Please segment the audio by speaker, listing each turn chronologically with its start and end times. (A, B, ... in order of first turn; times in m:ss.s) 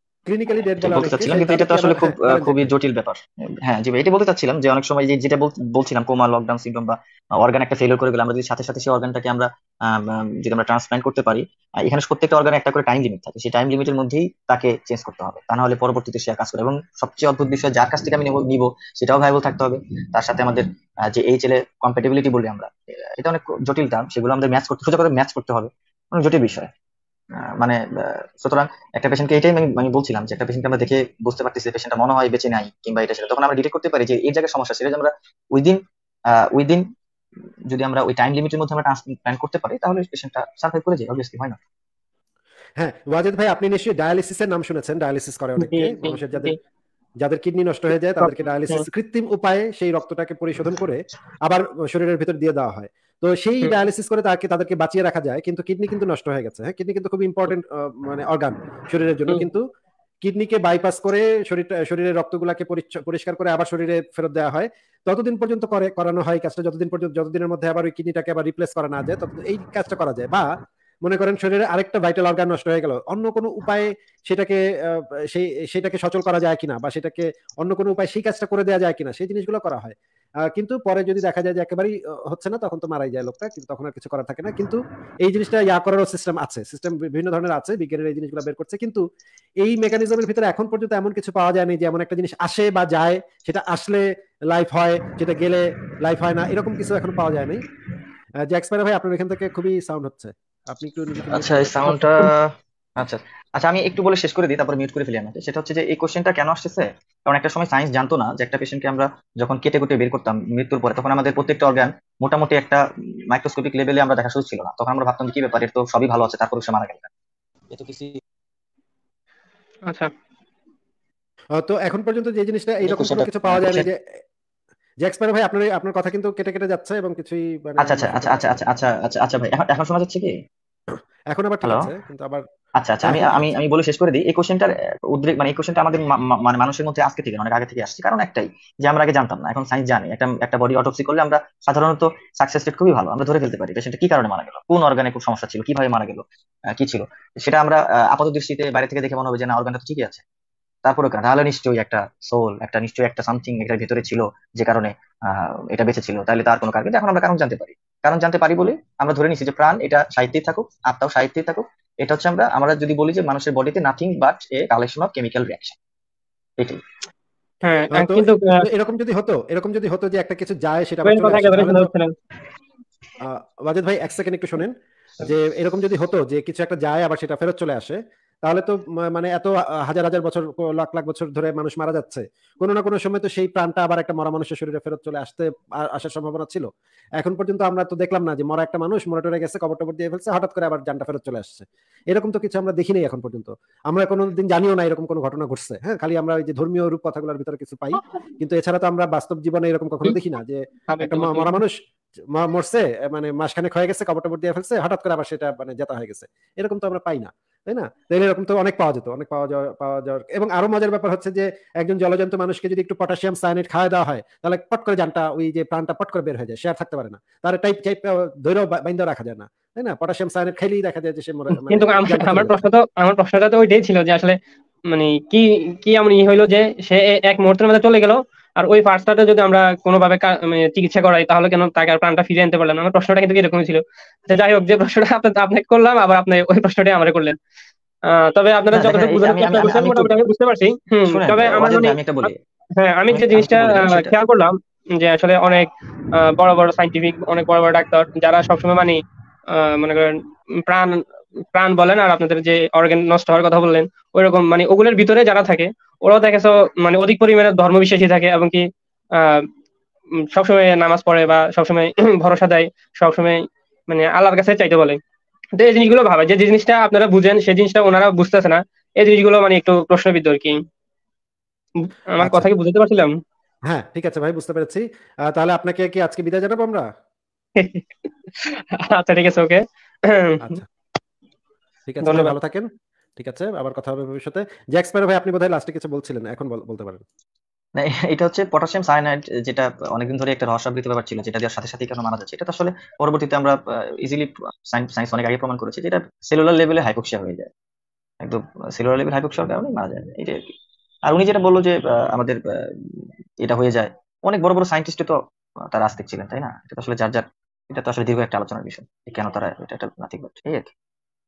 0:00.3-0:02.6 A
0:00.7-0:26.7 B
0:27.6-0:36.8 B
0:37.7-0:41.6 B
0:42.8-0:46.5 A
0:45.6-0:46.6 C
0:47.2-0:59.6 A
0:48.2-0:48.8 C
1:00.2-1:10.4 A
1:11.0-1:19.9 A
1:20.5-1:29.0 A
1:29.6-1:37.6 A
1:38.5-1:42.3 A
1:41.3-1:57.1 B
1:57.7-1:58.2 B
1:59.8-2:00.1 C
2:01.6-2:04.0 A
2:02.8-2:03.9 B
2:05.0-2:08.6 A
2:07.8-2:10.3 B
2:11.3-2:12.4 A
2:11.6-2:11.9 B
2:12.8-2:30.2 B
2:13.0-2:13.6 A
2:30.8-2:45.8 B
2:47.6-2:48.6 C
2:47.9-2:51.8 A
2:51.0-2:52.1 C
2:53.2-3:06.7 A
3:07.2-3:21.7 A
3:20.9-3:21.6 C
3:22.3-3:42.6 A
3:41.5-3:44.4 C
3:44.9-3:57.4 C
3:58.2-4:09.0 C
3:58.7-4:00.2 B
4:01.1-4:02.4 B
4:03.1-4:04.2 B
4:09.5-4:18.6 C
4:19.2-4:19.4 C
4:20.3-4:23.4 C
4:23.9-4:25.0 C
4:25.6-4:30.6 C
4:31.8-4:33.1 C
4:32.2-4:32.5 A
4:33.7-4:36.8 A
4:37.6-4:40.6 C
4:41.9-4:42.7 A
4:42.0-4:42.3 C
4:43.2-4:47.0 A
4:47.8-4:57.5 B
4:58.2-5:00.5 B
5:01.0-5:05.2 B
5:05.7-5:10.7 B